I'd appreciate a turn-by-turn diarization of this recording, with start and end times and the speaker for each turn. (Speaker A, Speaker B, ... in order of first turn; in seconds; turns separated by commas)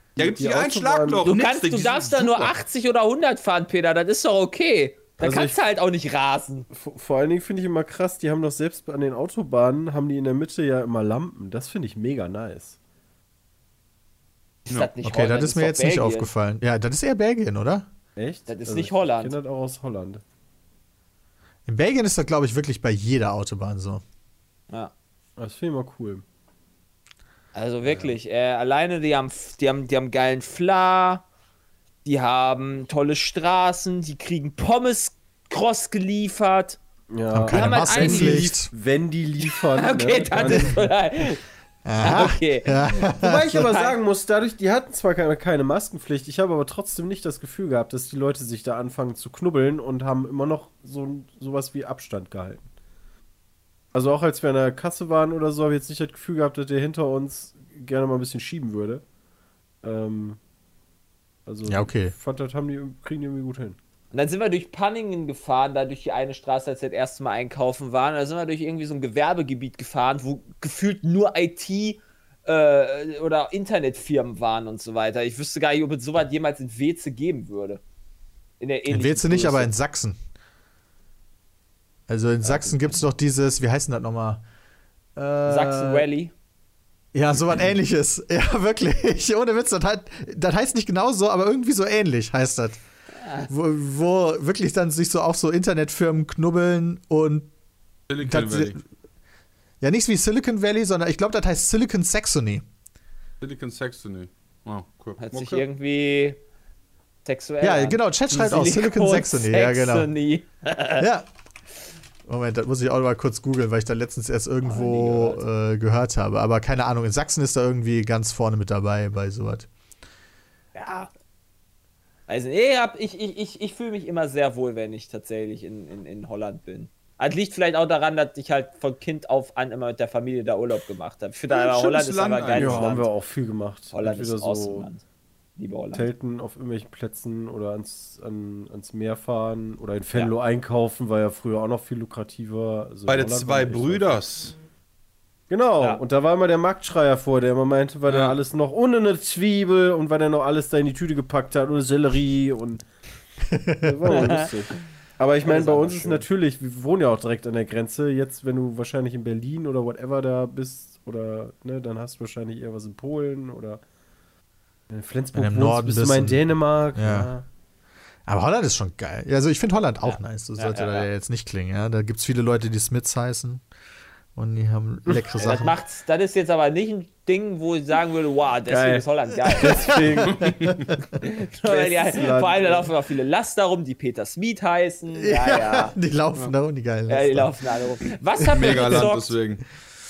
Speaker A: 0.2-1.2, Speaker B: 0.2-2.6, Speaker C: 1.2-6.7, Speaker A: 5.2-5.6, Speaker A: 6.7-12.8, Speaker C: 14.7-16.3, Speaker D: 15.0-17.9, Speaker A: 18.2-20.2, Speaker C: 18.5-19.3, Speaker D: 21.7-24.0, Speaker A: 25.4-26.2, Speaker C: 27.5-31.2, Speaker A: 27.9-28.2, Speaker C: 32.0-36.8, Speaker A: 37.1-40.8, Speaker D: 37.3-38.7, Speaker C: 37.5-38.5, Speaker C: 39.7-41.4, Speaker D: 40.4-40.9, Speaker D: 41.9-43.7, Speaker C: 42.0-44.0, Speaker A: 43.1-52.6, Speaker A: 53.9-59.0, Speaker A: 59.8-60.4, Speaker A: 61.5-63.8, Speaker D: 61.7-62.1, Speaker C: 64.1-77.8, Speaker C: 78.6-79.7, Speaker D: 78.9-80.2, Speaker D: 82.1-84.4, Speaker C: 82.5-83.0, Speaker D: 85.2-86.1, Speaker C: 85.5-86.3, Speaker D: 87.1-92.8, Speaker C: 93.2-93.5, Speaker D: 93.5-97.5, Speaker B: 98.1-98.8, Speaker D: 98.2-98.8, Speaker D: 99.8-102.7, Speaker B: 103.4-105.6, Speaker C: 105.2-106.4, Speaker C: 107.2-111.1, Speaker D: 107.6-110.1, Speaker D: 111.0-111.3, Speaker D: 112.3-119.7, Speaker C: 114.6-115.4, Speaker C: 120.8-121.1, Speaker C: 122.3-133.1, Speaker B: 131.5-132.9, Speaker A: 132.6-134.9, Speaker C: 133.9-135.0, Speaker C: 135.6-136.1, Speaker A: 135.9-144.2, Speaker B: 143.1-144.6, Speaker A: 145.5-152.8, Speaker B: 148.1-148.4, Speaker D: 153.5-154.3, Speaker A: 153.8-163.8, Speaker C: 154.1-154.5, Speaker C: 155.4-156.3, Speaker A: 164.9-167.4, Speaker D: 165.3-167.3, Speaker D: 168.3-173.6, Speaker C: 170.0-171.1, Speaker D: 174.3-175.8, Speaker C: 175.4-180.1, Speaker A: 178.7-180.5, Speaker D: 179.6-180.9, Speaker B: 180.3-180.9, Speaker C: 181.2-185.9, Speaker A: 181.6-182.9, Speaker D: 185.1-187.5, Speaker C: 187.1-189.3, Speaker B: 188.4-189.6, Speaker D: 188.7-189.0